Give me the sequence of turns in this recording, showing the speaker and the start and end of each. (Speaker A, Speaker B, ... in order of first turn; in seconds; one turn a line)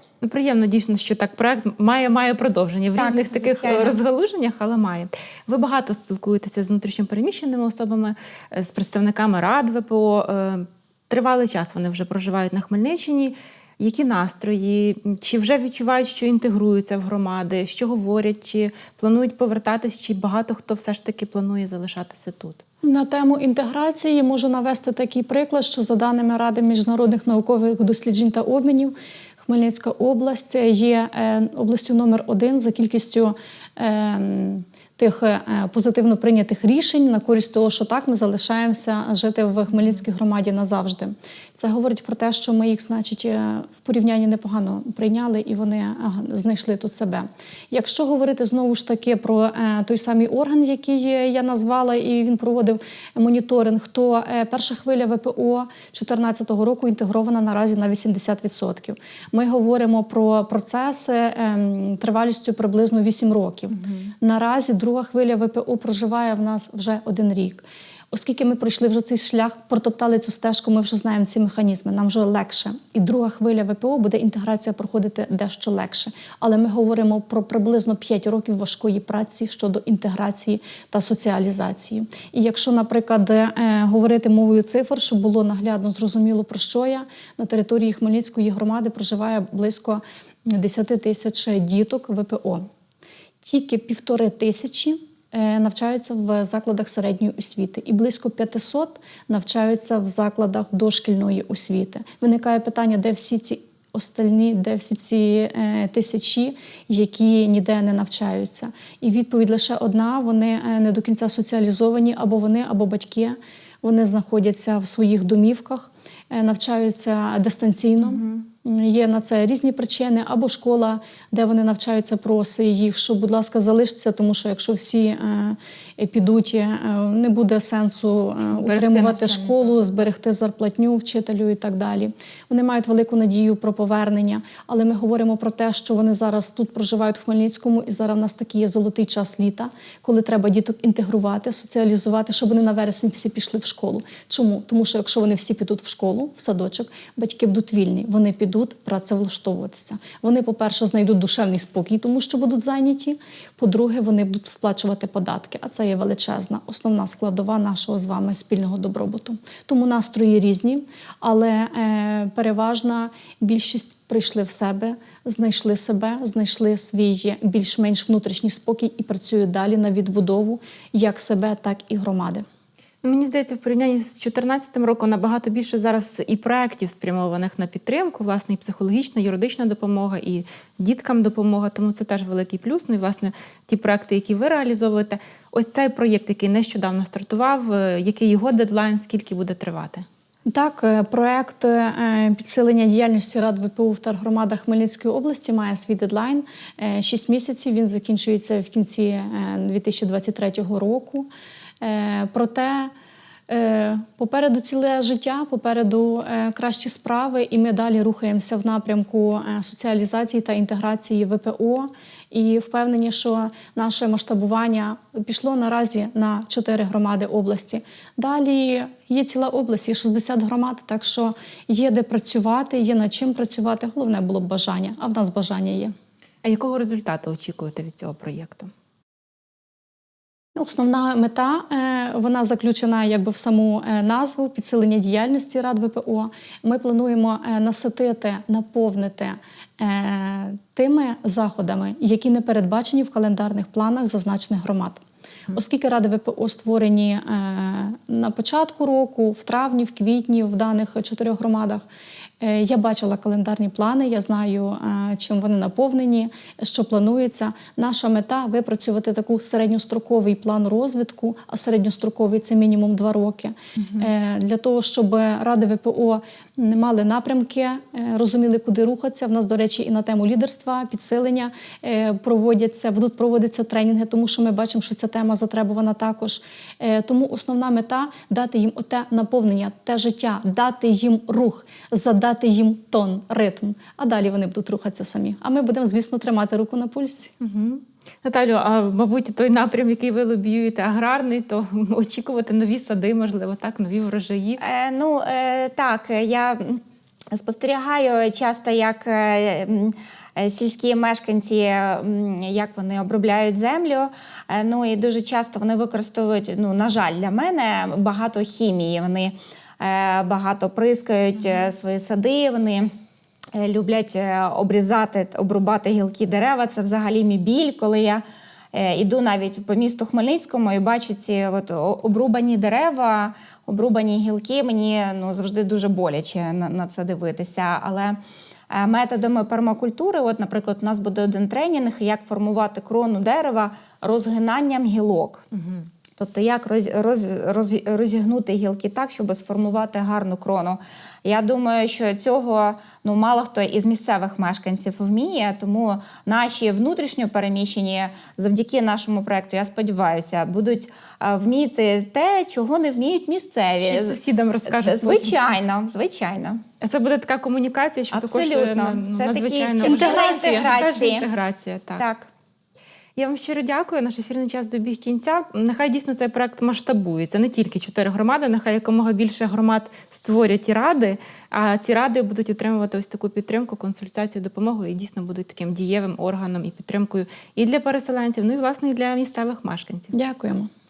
Speaker A: 0.2-22.6
Speaker B: 3.0-4.0
Speaker C: 22.8-92.7
Speaker C: 93.4-172.4
Speaker A: 118.0-118.4
Speaker A: 128.5-130.0
Speaker A: 173.0-190.0
Speaker C: 190.5-201.3
Speaker C: 201.8-202.9
Speaker C: 203.5-225.9
Speaker A: 226.4-228.7
Speaker C: 230.6-251.9
Speaker C: 252.4-287.3
Speaker A: 263.8-264.1
Speaker A: 287.4-294.6
Speaker B: 294.6-296.8
Speaker B: 297.3-312.9
Speaker B: 313.6-328.2
Speaker B: 328.7-335.5
Speaker B: 336.2-356.6
Speaker A: 353.8-355.3
Speaker A: 356.8-362.1
Speaker B: 358.1-361.3
Speaker C: 359.8-360.7
Speaker B: 362.0-362.3
Speaker A: 363.2-380.1
Speaker C: 380.1-380.7